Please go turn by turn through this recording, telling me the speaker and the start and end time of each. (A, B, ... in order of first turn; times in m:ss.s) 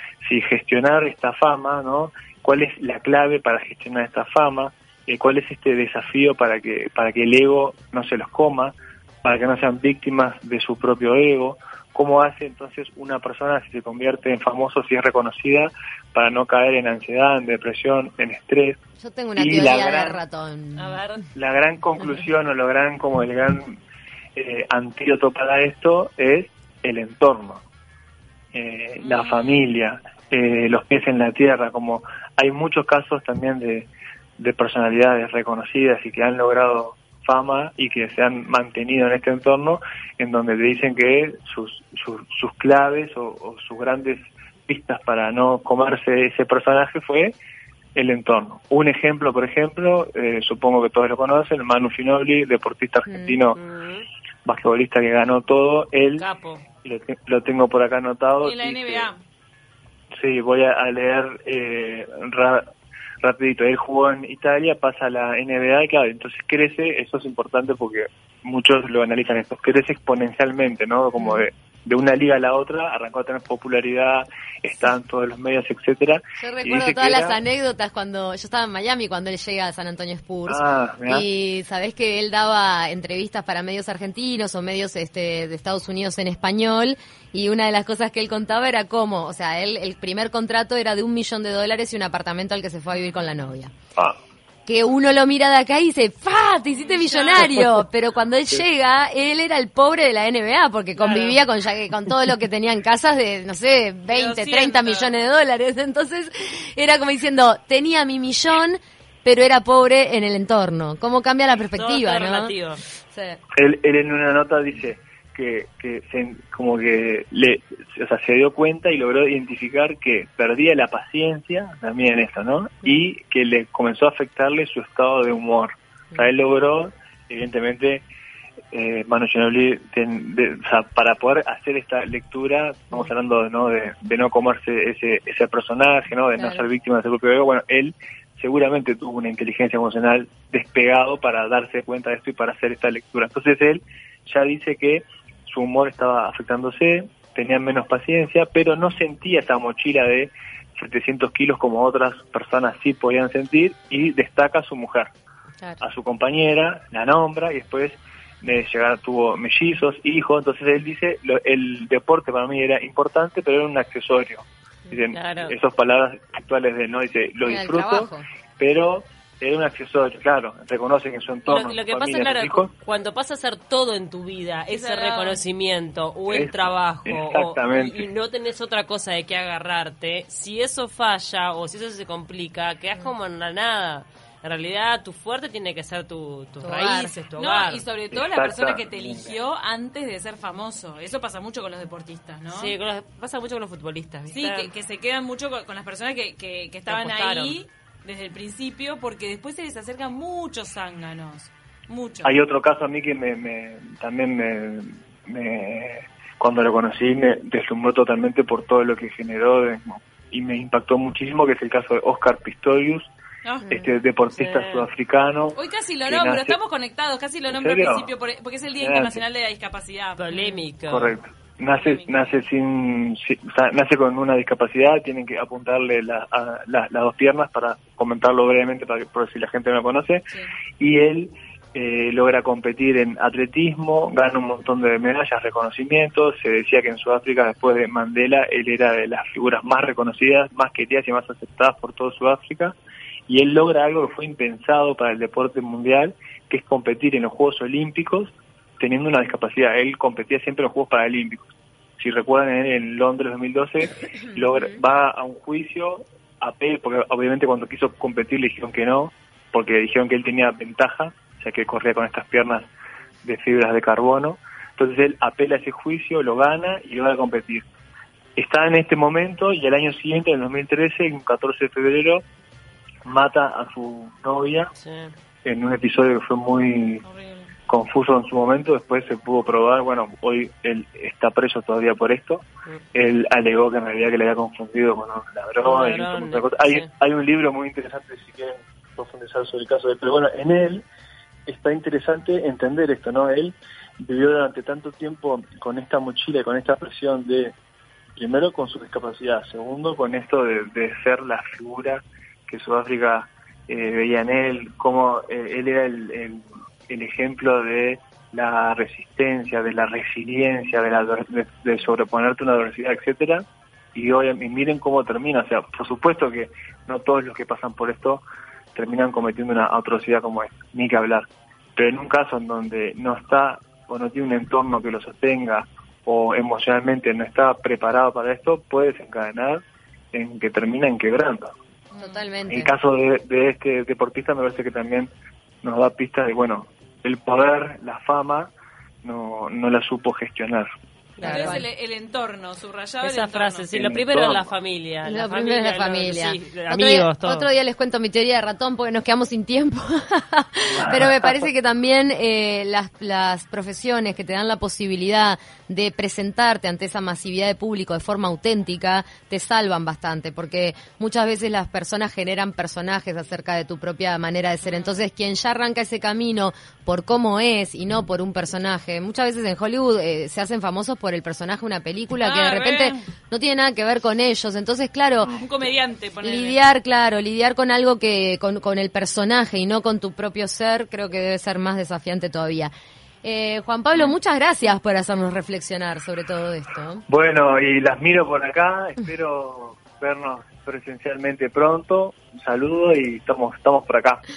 0:00.2-0:18.8 A
0:19.0-0:21.0 B
0:19.4-0:20.2 A
0:20.8-0:21.2 C
0:21.4-0:23.8 A
0:24.4-0:27.6 A
0:28.5-0:47.4 A
0:29.0-0:29.6 D
0:48.0-0:53.6 A
0:53.1-0:53.4 B
0:53.5-0:54.1 C
0:54.4-0:56.3 A
0:56.2-0:56.6 C
0:56.8-0:59.1 A
0:58.4-0:59.2 D
1:00.2-1:02.7 A
1:03.2-1:17.4 A
1:11.2-1:11.4 B
1:16.4-1:33.7 B
1:20.5-1:21.2 A
1:34.7-1:53.4 B
1:36.8-1:37.5 D
1:41.0-1:41.3 D
1:44.1-1:45.1 D
1:51.6-1:52.8 C
1:53.6-2:08.0 A
2:08.7-2:35.1 A
2:16.4-2:16.6 B
2:35.8-2:52.7 A
2:45.1-2:45.5 C
2:47.4-2:48.2 B
2:51.5-3:07.8 C
2:54.7-2:55.4 D
2:56.3-2:58.0 A
3:06.6-3:07.1 B
3:07.4-3:12.7 D
3:08.1-3:09.4 A
3:12.5-3:14.7 C
3:14.3-3:22.4 D
3:16.9-3:17.6 C
3:22.2-3:33.1 A
3:33.7-3:36.6 A
3:34.3-3:34.9 C
3:35.6-3:40.2 D
3:37.5-3:38.1 A
3:38.8-3:39.2 A
3:40.2-3:41.2 C
3:40.9-3:50.2 A
3:41.7-3:42.4 D
3:50.8-4:02.8 A
4:03.3-4:22.7 A
4:14.4-4:14.7 B
4:23.2-4:27.6 A
4:28.4-4:32.2 A
4:33.1-4:34.7 A
4:34.8-4:35.1 C
4:35.4-4:37.0 A
4:37.0-4:37.5 D
4:37.7-4:50.8 A
4:45.6-4:46.9 C
4:51.5-4:57.5 A
4:58.2-5:18.2 A
5:18.8-5:29.6 A
5:30.1-5:31.5 A
5:31.9-5:32.3 D
5:32.0-5:32.7 B
5:32.5-5:35.1 A
5:35.6-5:38.5 A
5:39.0-5:40.7 A
5:41.2-5:41.6 C
5:41.2-5:41.7 B
5:41.2-5:43.7 D
5:43.0-5:47.5 C
5:43.7-5:44.5 A
5:45.0-6:15.4 B
5:50.8-5:51.1 A
6:04.6-6:05.0 D
6:12.2-6:13.0 D
6:15.4-6:16.6 D
6:16.2-6:22.7 B
6:23.2-6:27.0 B
6:27.1-6:34.2 A